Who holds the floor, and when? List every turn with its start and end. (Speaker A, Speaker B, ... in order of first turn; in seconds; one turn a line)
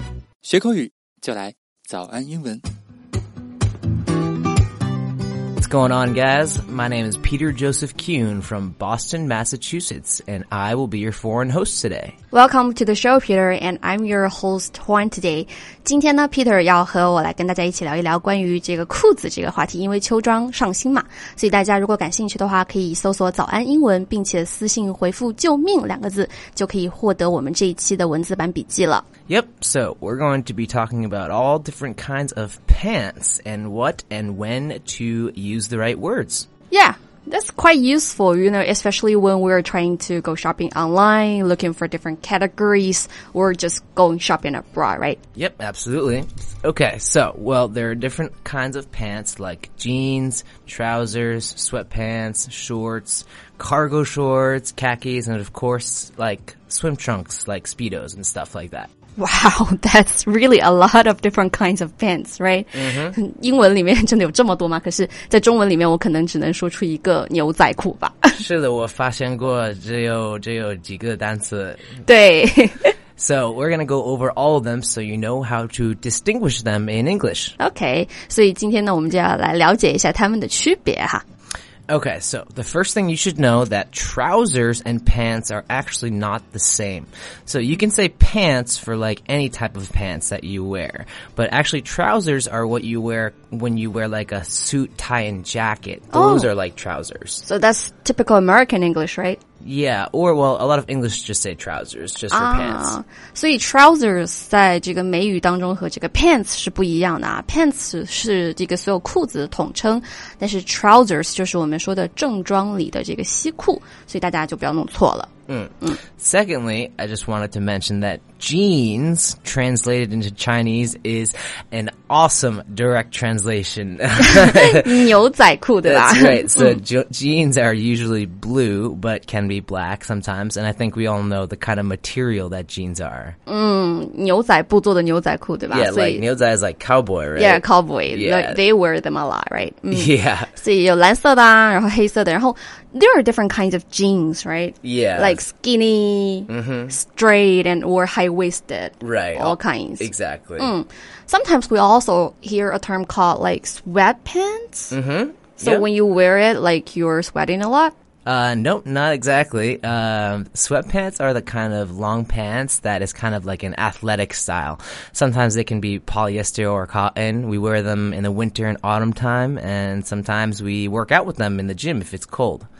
Speaker A: 0.4-2.6
Speaker B: 5.6-12.1
Speaker C: 12.3-29.0
Speaker B: 29.3-36.5
Speaker C: 36.7-45.2
Speaker B: 45.3-58.9
Speaker C: 59.2-68.4
Speaker B: 62.7-63.1
Speaker B: 68.3-72.0
Speaker C: 72.0-72.9
Speaker B: 73.2-77.5
Speaker C: 77.6-81.2
Speaker B: 81.9-97.4
Speaker C: 96.1-96.5
Speaker C: 97.4-99.4
Speaker B: 99.6-102.9
Speaker C: 102.3-115.3
Speaker B: 115.5-124.9
Speaker C: 124.2-126.8
Speaker B: 125.8-133.3
Speaker C: 133.5-136.2
Speaker B: 135.7-138.6
Speaker C: 137.3-154.9
Speaker B: 139.9-140.5
Speaker B: 144.8-145.4
Speaker B: 146.5-146.9
Speaker B: 149.0-150.7
Speaker B: 154.9-155.9
Speaker C: 155.6-157.9
Speaker B: 158.2-172.7